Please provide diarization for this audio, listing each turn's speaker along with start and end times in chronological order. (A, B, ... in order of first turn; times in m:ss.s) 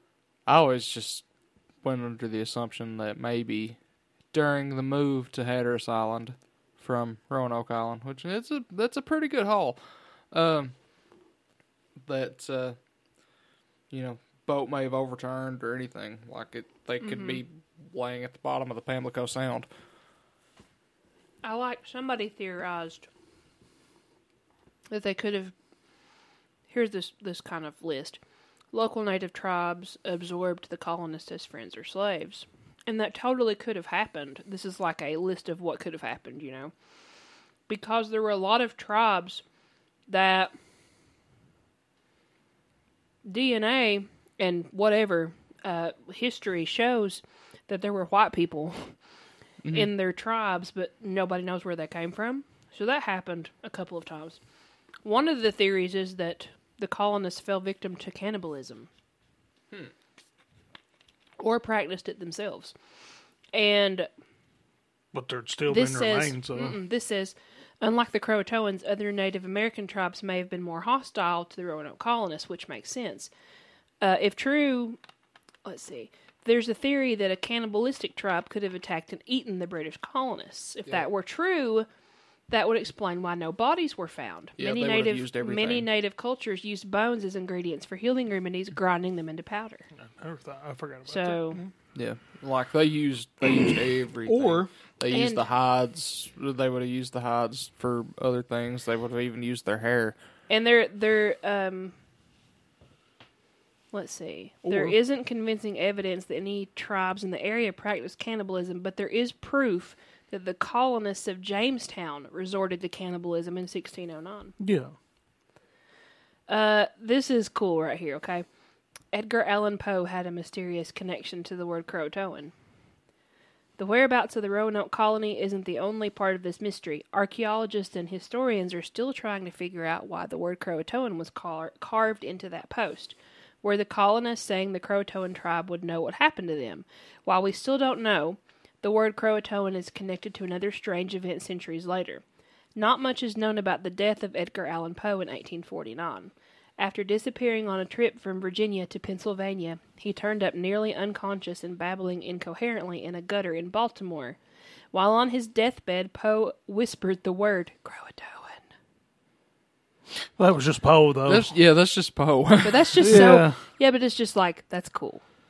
0:00.4-0:01.2 A
0:01.8-0:03.8 A
0:04.3-0:09.8 A
0:10.3-0:10.7 A
0:12.0-0:12.8 A
0:13.9-0:19.7 A
0:17.0-0:17.4 B
0:21.4-0:23.1 B
0:24.9-0:25.5 B
0:26.7-0:28.2 B
0:28.7-0:36.7 B
0:37.7-0:39.4 B
0:40.1-0:40.5 B
0:43.2-0:48.9 B
0:49.6-0:49.9 A
0:49.7-0:54.4 B
0:55.0-0:58.9 B
1:01.4-1:02.7 B
1:03.5-1:04.1 B
1:05.1-1:06.8 C
1:05.7-1:13.3 B
1:14.0-1:15.0 B
1:15.6-1:21.9 B
1:22.5-1:29.8 B
1:24.6-1:25.9 A
1:30.1-1:31.7 C
1:31.1-1:31.6 B
1:31.9-1:40.2 A
1:34.2-1:34.7 C
1:35.1-1:35.4 B
1:40.5-1:41.9 B
1:43.9-1:54.5 B
1:44.6-1:45.0 C
1:54.6-1:54.9 C
1:56.5-1:58.4 B
1:59.1-2:02.5 B
2:03.8-2:22.2 B
2:22.8-2:34.4 B
2:34.9-2:38.7 B
2:40.4-2:41.5 C
2:41.2-2:43.3 A
2:42.6-2:45.2 B
2:43.0-2:43.6 C